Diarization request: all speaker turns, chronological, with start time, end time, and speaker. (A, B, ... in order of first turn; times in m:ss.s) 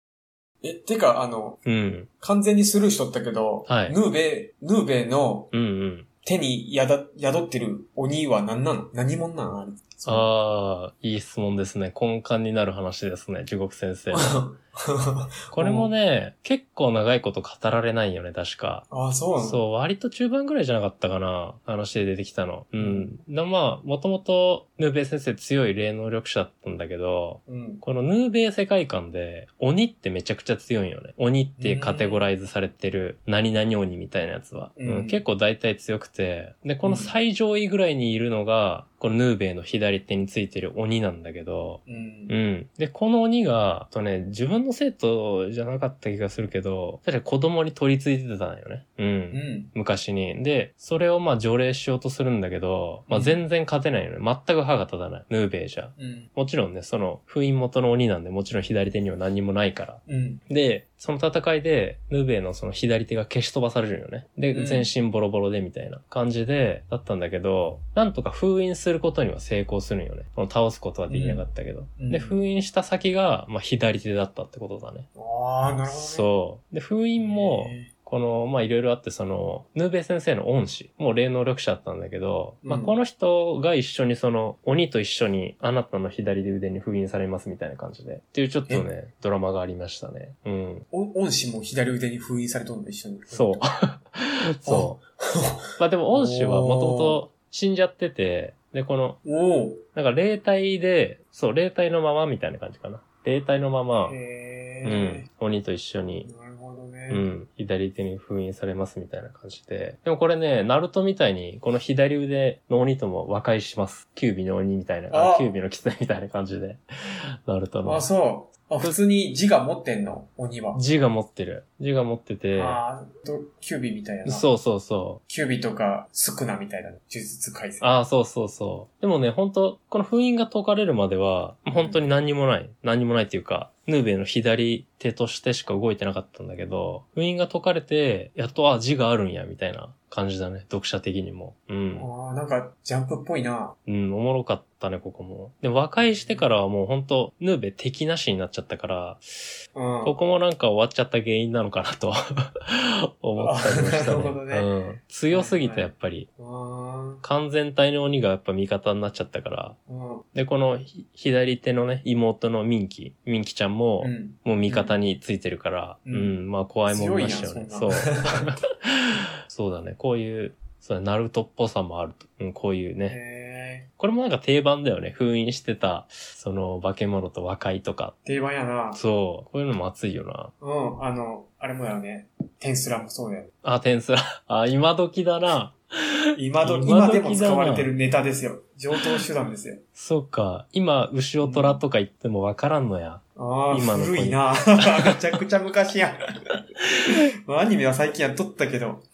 0:00.6-0:01.6 A
0:01.6-0:02.1 B
0:02.2-0:05.5 A
0:03.7-0:04.0 B
0:05.5-0:06.1 B
0:06.2-0:10.3 A
0:10.1-0:14.4 B
0:14.1-0:15.9 A
0:15.5-1:15.1 B
0:18.9-0:19.6 A
0:22.8-0:23.1 A
0:27.5-0:27.8 A
0:31.6-0:32.2 A
0:34.8-0:35.2 A
0:36.8-0:37.1 A
0:41.9-0:42.4 A
0:49.3-0:49.7 A
0:53.1-0:53.4 A
0:56.0-0:56.3 A
1:00.1-1:00.4 A
1:04.5-1:04.9 A
1:11.1-1:11.4 A
1:12.0-1:12.4 A
1:15.2-1:16.3 A
1:15.9-1:30.8 B
1:17.2-1:17.9 A
1:22.6-1:23.0 A
1:30.9-1:33.6 A
1:33.3-1:35.0 B
1:34.7-1:37.2 A
1:35.8-1:39.2 B
1:39.2-1:39.8 A
1:39.9-1:44.2 B
1:44.0-1:45.3 A
1:44.8-1:46.3 B
1:46.2-1:47.3 A
1:47.1-1:56.8 B
1:55.1-1:55.5 A
1:57.5-1:58.1 B
1:57.8-2:00.8 A
2:00.7-2:02.8 B
2:02.5-2:04.5 A
2:04.2-2:05.2 B
2:05.3-2:07.9 A
2:07.8-2:22.1 B
2:11.8-2:12.0 A
2:22.0-2:23.8 A
2:23.9-2:29.3 B
2:26.0-2:26.5 A
2:29.8-2:30.2 A
2:30.0-2:36.3 B
2:33.4-2:34.7 A
2:35.3-2:37.2 A
2:37.2-2:39.8 B
2:39.9-2:40.3 A
2:40.3-2:49.0 B
2:44.0-2:45.0 A
2:46.1-2:48.5 A
2:49.5-2:53.2 B
2:53.1-2:53.9 A
2:54.0-2:58.2 B
2:58.2-2:59.0 A
2:58.9-3:00.5 B
3:00.6-3:03.5 A
3:03.6-3:05.8 B
3:06.4-3:09.8 A
3:06.6-3:07.9 B
3:10.0-3:14.6 B
3:11.4-3:11.8 A
3:13.4-3:16.3 A
3:17.1-3:19.1 A